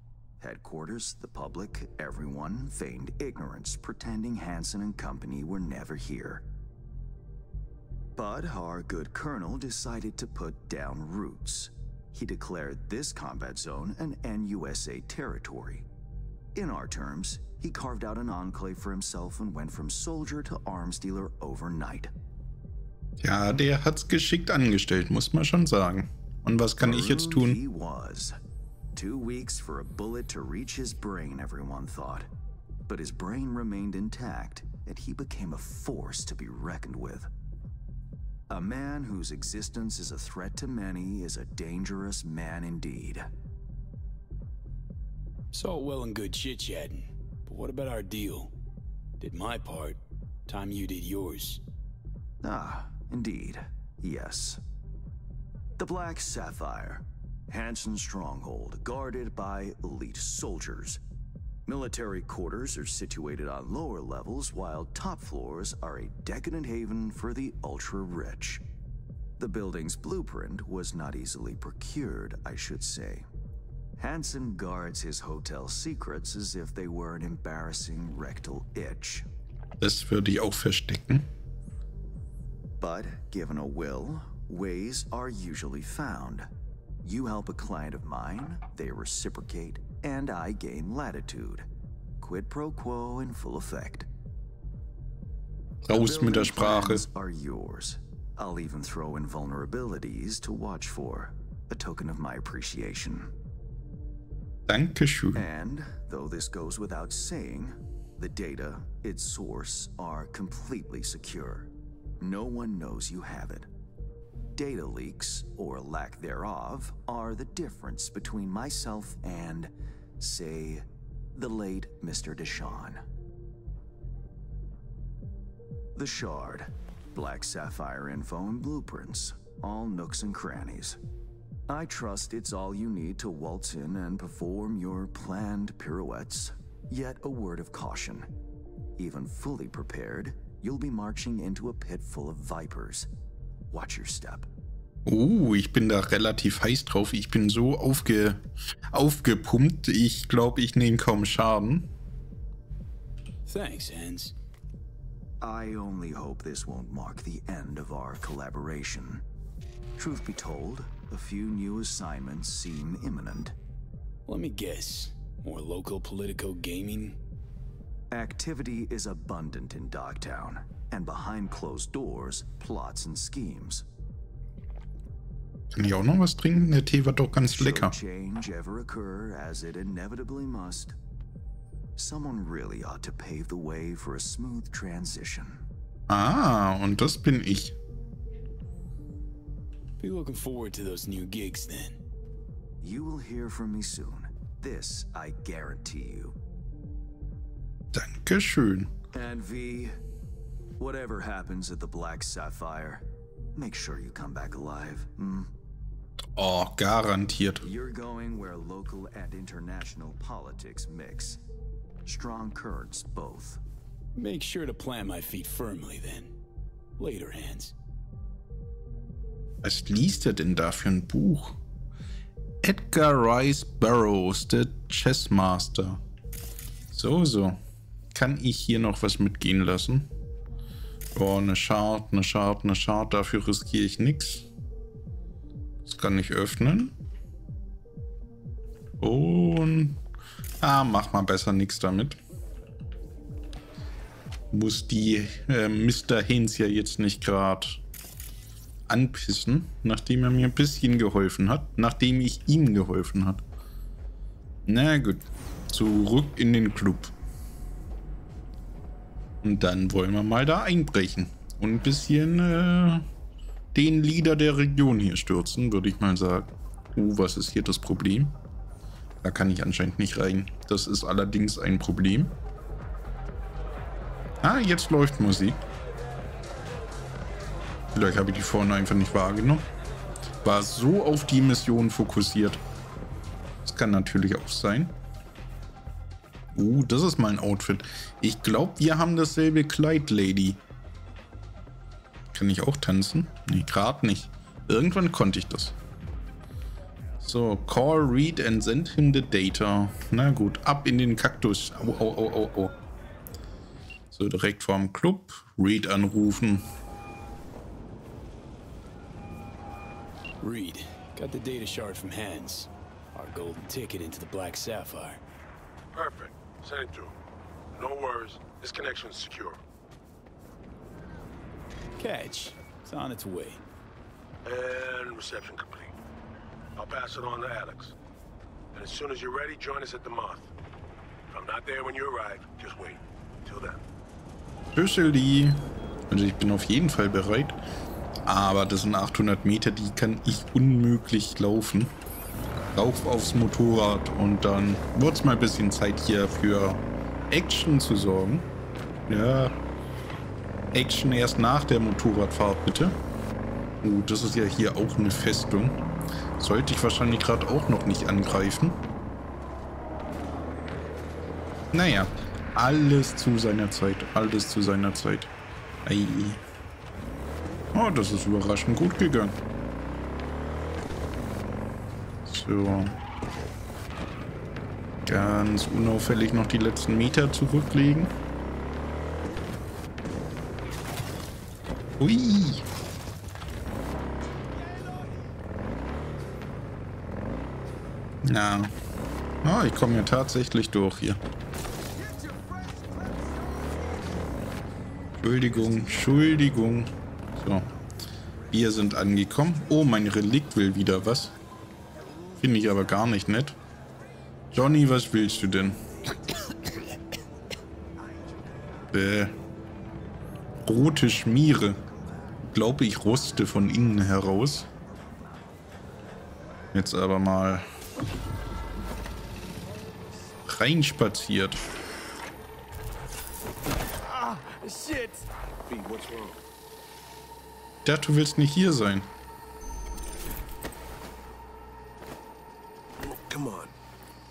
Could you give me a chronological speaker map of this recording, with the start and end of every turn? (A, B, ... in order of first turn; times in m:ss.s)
0:00.4-0:06.4 A
0:08.2-0:15.8 A
0:16.6-0:22.1 A
0:23.2-0:27.6 B
0:26.8-0:28.4 A
0:29.0-0:32.3 A
0:32.9-0:37.3 A
0:38.5-0:43.3 A
0:45.5-0:48.5 C
0:49.2-0:51.6 C
0:52.4-0:54.6 A
0:55.8-1:01.0 A
1:01.7-1:08.6 A
1:09.4-1:13.2 A
1:14.0-1:19.3 A
1:19.8-1:21.3 B
1:22.8-1:26.5 A
1:27.0-1:31.7 A
1:32.2-1:34.1 A
1:35.9-1:37.1 B
1:35.9-1:43.3 A
1:44.7-1:45.4 B
1:45.4-1:53.7 A
1:54.6-2:03.0 A
2:06.0-2:11.0 A
2:11.7-2:18.3 A
2:19.0-2:23.1 A
2:23.7-2:24.5 A
2:25.1-2:28.4 B
2:28.9-2:31.9 B
2:33.5-2:34.3 C
2:35.4-2:39.2 A
2:40.0-2:43.5 A
2:44.3-2:47.2 C
2:48.1-2:53.8 A
2:55.7-2:58.0 B
2:57.5-3:01.0 A
3:02.0-3:05.6 A
3:06.1-3:07.8 B
3:10.0-3:12.0 C
3:12.8-3:16.4 A
3:17.9-3:18.9 B
3:19.1-3:20.0 A
3:20.8-3:25.5 A
3:26.4-3:27.6 B
3:27.6-3:31.4 A
3:32.1-3:33.6 A
3:34.2-3:36.4 C
3:37.0-3:37.8 C
3:39.6-3:41.6 B
3:42.6-3:46.0 B
3:46.9-3:47.6 B
3:48.1-3:50.1 B
3:51.2-3:54.5 B
3:55.8-3:56.9 B
3:59.0-4:00.0 B
4:00.6-4:02.2 B
4:04.5-4:07.8 B
4:08.9-4:13.4 B
4:14.7-4:17.1 B
4:19.4-4:23.1 B
4:23.7-4:28.4 B
4:29.2-4:32.4 B
4:34.4-4:35.6 B
4:37.9-4:39.6 B
4:40.4-4:42.6 B
4:43.6-4:45.0 B
4:46.5-4:50.6 B
4:52.3-4:55.8 B
4:57.2-5:02.8 B
5:04.1-5:06.6 B
5:10.4-5:15.2 C
5:15.9-5:17.2 D
5:17.7-5:19.6 D
5:22.0-5:23.6 C
5:24.4-5:25.9 D
5:26.8-5:28.0 D
5:28.7-5:30.5 D
5:31.3-5:33.8 D
5:34.7-5:37.6 B
5:38.3-5:42.0 B
5:42.8-5:48.5 B
5:49.1-5:49.5 B
5:50.7-5:53.0 B
5:53.8-5:55.8 B
5:56.4-5:58.8 B
6:01.7-6:05.3 B
6:05.8-6:06.4 B
6:07.7-6:09.4 B
6:12.3-6:13.0 B
6:15.1-6:18.1 B
6:22.0-6:22.6 B
6:28.2-6:28.7 B
6:29.4-6:31.2 B
6:35.2-6:37.7 B
6:38.5-6:41.4 B
6:42.4-6:43.6 B
6:44.5-6:45.8 B
6:48.9-6:49.4 B
6:50.6-6:51.8 B
6:52.4-6:54.7 B
6:56.7-6:57.6 B
7:00.5-7:01.6 B
7:04.1-7:05.3 C
7:05.7-7:06.4 D
7:07.8-7:09.1 B
7:13.0-7:13.7 D